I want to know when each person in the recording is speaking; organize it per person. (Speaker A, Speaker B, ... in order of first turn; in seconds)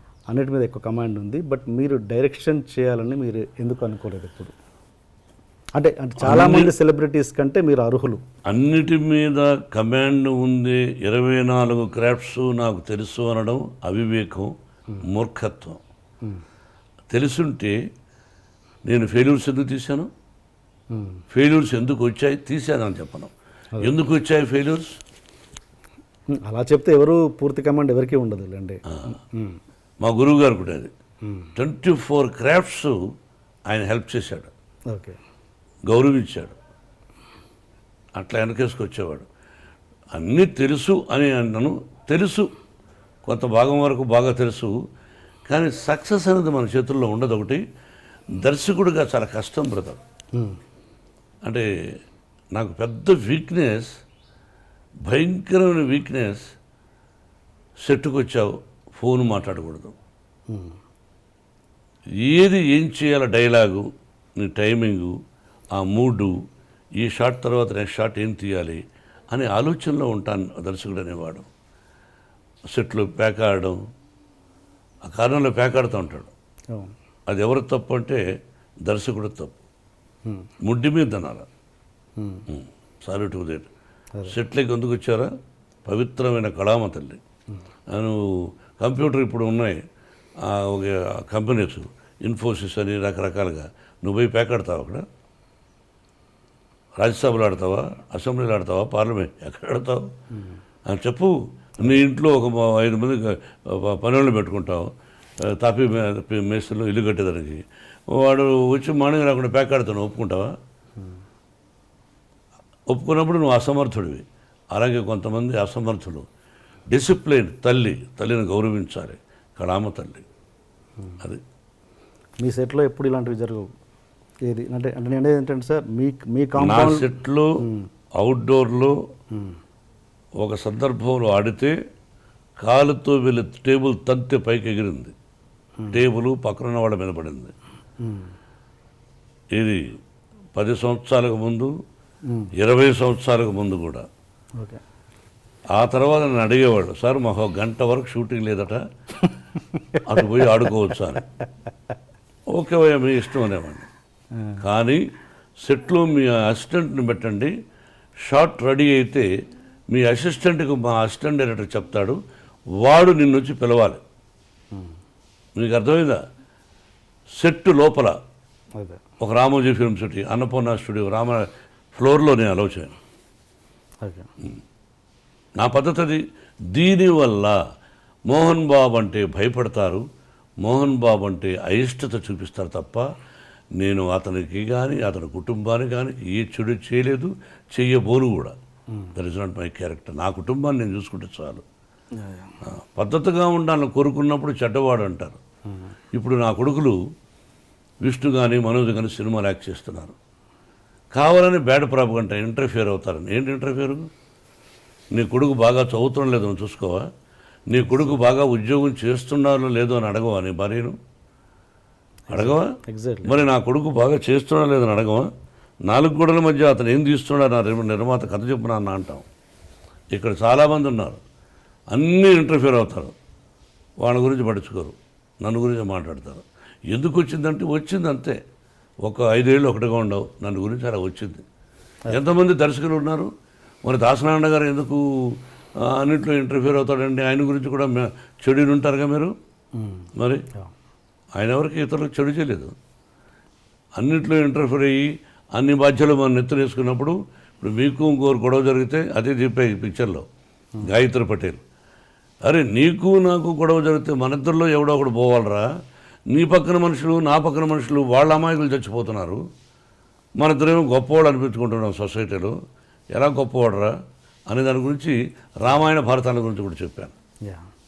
Speaker A: 0.3-4.5, 5.8-8.2, 20.9-21.2, 26.4-29.6, 31.2-31.5, 34.9-35.2, 82.2-82.5, 122.4-123.7, 124.5-127.9, 129.3-129.6, 135.8-136.0, 138.0-138.3, 192.2-192.5, 207.9-208.2, 212.3-213.4, 239.8-240.7
Speaker B: 6.2-6.7, 8.5-14.5, 15.0-15.8, 17.1-17.8, 18.9-20.1, 21.3-24.9, 30.0-30.9, 31.6-33.0, 33.7-34.5, 35.9-36.6, 38.2-39.3, 40.1-42.5, 43.2-44.8, 45.5-47.6, 48.4-50.0, 52.6-53.9, 55.1-56.4, 57.9-60.0, 62.2-63.9, 64.4-65.2, 65.7-66.3, 67.0-71.5, 72.7-73.8, 75.1-76.3, 77.3-78.2, 78.9-79.5, 80.6-81.5, 82.5-83.7, 84.3-85.3, 85.8-87.2, 87.9-89.8, 90.4-95.0, 97.0-100.1, 100.9-110.5, 112.9-116.3, 116.9-120.2, 126.6-127.5, 128.2-129.0, 130.4-131.7, 132.6-135.1, 135.9-137.5, 139.5-139.8, 140.6-141.7, 142.6-144.1, 145.7-148.8, 150.1-151.2, 152.5-153.9, 154.6-155.0, 155.6-157.5, 158.2-159.3, 159.9-162.2, 162.8-164.0, 165.6-166.2, 167.4-168.2, 169.2-173.0, 175.6-176.2, 176.7-177.6, 178.3-180.0, 180.6-183.1, 183.8-188.6, 189.2-191.6, 192.7-195.4, 196.2-197.0, 198.0-200.2, 201.1-204.1, 205.1-207.1, 207.7-211.0, 212.3-212.7, 213.2-215.3, 215.9-219.3, 220.1-221.2, 221.9-223.1, 224.0-228.4, 229.1-231.4, 232.1-233.3, 233.8-239.3, 240.2-240.4, 241.4-242.7, 244.0-250.2, 250.8-251.6, 252.4-255.7, 256.3-259.4, 260.4-262.5, 263.1-263.9, 264.5-267.1